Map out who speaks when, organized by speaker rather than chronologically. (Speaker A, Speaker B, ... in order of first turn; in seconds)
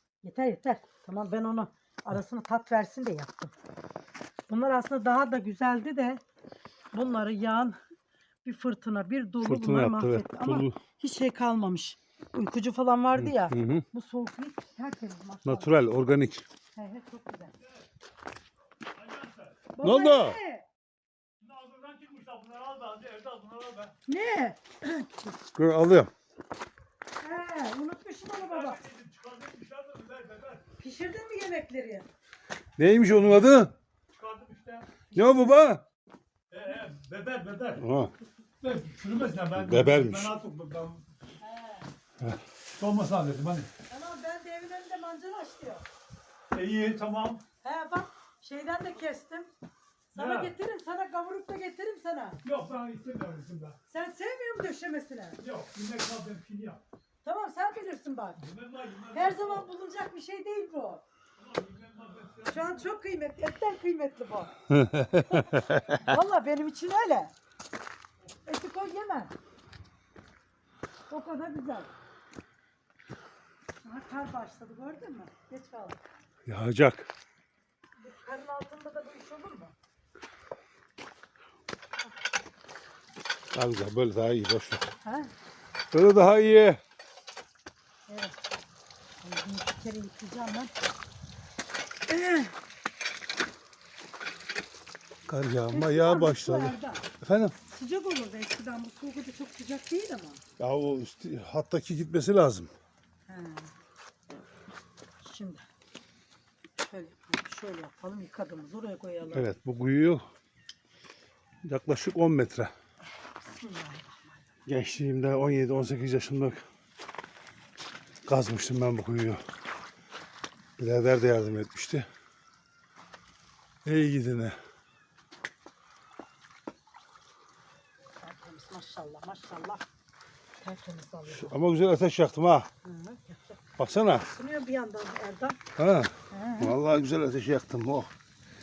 Speaker A: 0.2-3.5, 4.5-6.2, 6.9-7.8, 8.4-15.7, 16.8-17.5, 19.8-20.7, 24.1-25.4, 27.2-28.8, 30.8-32.1, 35.1-35.5, 41.4-41.9, 43.9-45.9, 47.6-49.5, 50.1-52.4, 53.9-55.4, 57.2-58.4, 59.1-61.0, 62.5-64.5, 65.2-67.3, 68.4-69.3, 71.1-71.9, 73.8-76.0, 78.0-79.8, 85.0-85.3, 88.1-88.4, 89.2-90.7, 92.1-92.5, 95.7-97.1, 97.7-100.4, 103.3-103.7, 105.2-105.6, 106.8-109.5, 113.5-114.6, 128.2-129.8, 130.6-131.5, 132.8-133.6, 134.2-135.6, 136.3-136.8
Speaker B: 9.4-10.8, 13.2-13.8, 15.4-16.4, 19.8-20.4, 25.5-26.1, 32.8-33.7, 35.1-35.8, 37.8-38.1, 39.6-40.3, 64.7-66.1, 76.5-77.1, 83.5-84.9, 85.9-86.8, 95.2-97.6, 100.6-102.7, 109.3-110.3, 111.6-112.7, 114.7-116.6, 118.2-119.4, 120.8-122.1, 123.8-124.6, 131.3-132.7, 133.8-134.3, 135.8-138.1
Speaker C: 18.9-19.7, 21.4-23.9, 28.3-30.6, 34.1-35.0, 36.5-37.8, 38.6-41.1, 42.8-43.7, 46.5-47.4, 50.1-50.5, 52.4-53.8, 55.4-56.8, 58.4-59.7, 61.4-62.9